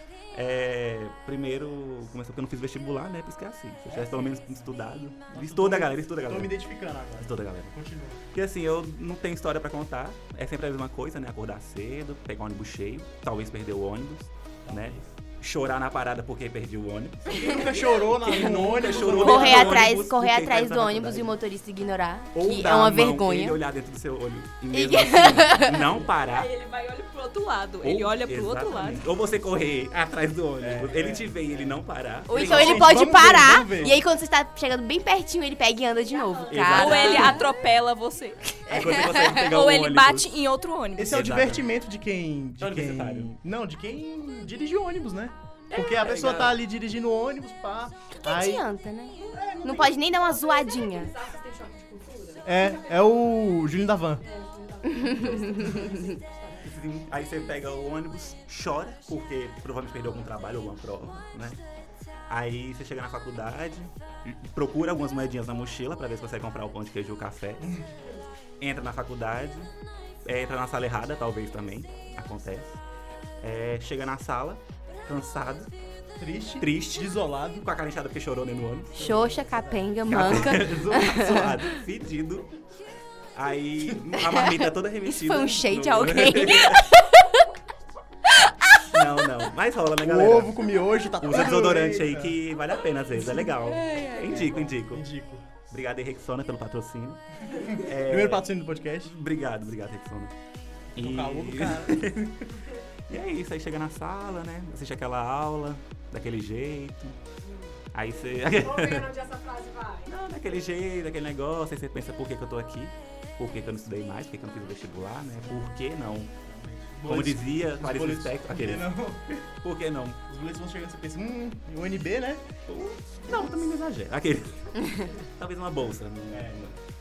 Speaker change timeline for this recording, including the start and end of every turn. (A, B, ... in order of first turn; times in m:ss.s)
0:00.3-0:06.5 A
0:03.9-0:04.3 B
0:05.3-0:08.2 B
0:07.2-0:07.8 A
0:08.3-0:17.4 A
0:14.7-0:15.0 B
0:17.3-0:19.9 B
0:17.5-0:17.8 C
0:18.2-0:21.3 A
0:19.1-0:23.6 D
0:22.4-0:26.5 A
0:24.7-0:26.0 D
0:26.2-0:29.1 C
0:27.8-0:33.3 A
0:30.6-0:34.0 B
0:32.3-0:37.4 D
0:36.1-0:37.4 E
0:36.5-0:36.9 A
0:36.7-0:41.2 C
0:38.7-0:40.3 A
0:38.7-0:39.5 D
0:41.0-0:48.6 B
0:41.1-0:41.6 A
0:42.6-0:43.3 A
0:45.7-0:46.6 A
0:48.2-0:51.1 D
0:49.3-0:50.2 B
0:50.3-0:53.5 E
0:52.4-0:54.2 B
0:54.2-0:56.8 E
0:55.1-0:55.9 D
0:56.6-1:01.6 A
1:02.3-1:07.6 A
1:08.6-1:09.7 A
1:10.2-1:12.8 A
1:13.4-1:15.7 A
1:16.2-1:17.7 B
1:16.6-1:19.0 A
1:19.0-1:19.9 B
1:19.0-1:21.7 D
1:20.0-1:22.5 A
1:23.4-1:26.8 A
1:23.8-1:24.2 B
1:24.1-1:27.4 D
1:28.4-1:29.3 D
1:28.9-1:30.5 A
1:30.0-1:32.4 B
1:31.2-1:35.0 A
1:33.5-1:34.2 D
1:34.3-1:35.6 B
1:35.6-1:37.2 A
1:37.5-1:39.1 B
1:37.8-1:38.5 A
1:39.0-1:40.3 A
1:41.0-1:42.4 A
1:41.0-1:42.0 B
1:43.1-1:47.2 A
1:47.9-1:49.1 A
1:48.5-1:50.1 E
1:50.1-1:56.3 A
1:56.5-1:59.4 B
1:57.0-1:58.9 A
1:59.6-2:00.2 A
2:00.3-2:02.5 B
2:02.7-2:06.8 A
2:06.3-2:06.8 B